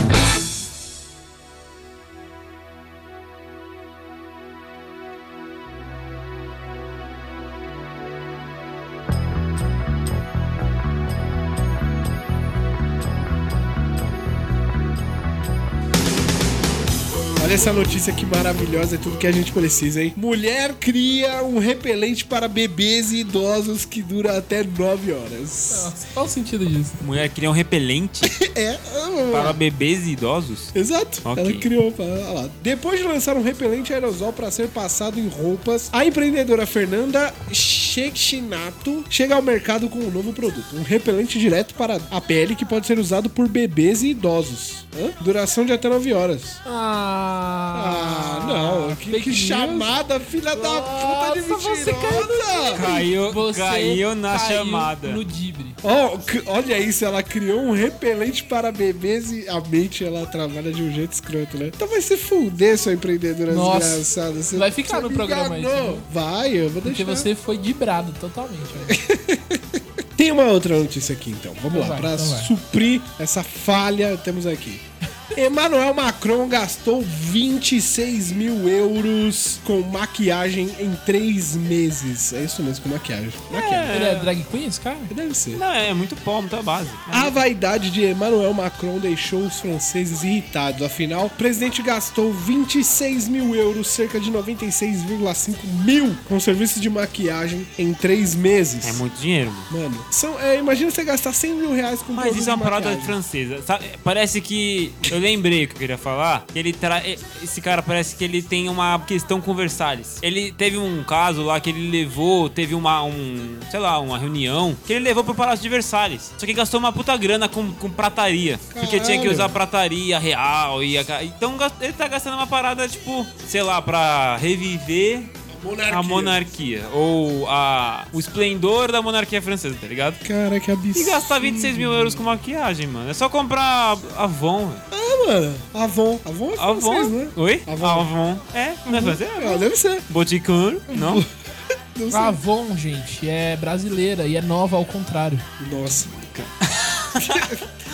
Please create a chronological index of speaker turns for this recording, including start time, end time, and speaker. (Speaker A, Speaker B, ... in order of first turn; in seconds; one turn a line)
Speaker A: 17.4-25.9
Speaker B: 25.7-27.0
Speaker C: 27.0-28.4
Speaker A: 28.2-29.6
Speaker C: 29.3-30.7
Speaker A: 30.7-46.6
Speaker C: 31.2-31.6
Speaker B: 46.6-49.9
Speaker A: 47.7-52.9
Speaker B: 50.5-55.8
Speaker C: 52.7-55.2
Speaker A: 55.8-67.3
Speaker B: 63.5-66.1
Speaker B: 66.8-69.0
Speaker A: 68.8-83.9
Speaker B: 71.7-72.5
Speaker C: 83.5-84.3
Speaker B: 83.9-85.1
Speaker A: 85.1-85.6
Speaker C: 85.5-87.4
Speaker A: 87.1-99.0
Speaker C: 98.8-99.7
Speaker A: 99.7-103.2
Speaker C: 102.1-125.3
Speaker A: 118.7-119.6
Speaker A: 125.5-126.4
Speaker C: 125.9-130.2
Speaker A: 130.2-132.3
Speaker C: 130.9-134.8
Speaker A: 134.9-138.1
Speaker C: 136.6-141.2
Speaker A: 138.9-140.0
Speaker A: 140.9-141.3
Speaker A: 141.9-142.4
Speaker B: 142.1-145.4
Speaker A: 145.6-146.2
Speaker C: 146.3-147.5
Speaker A: 147.2-147.7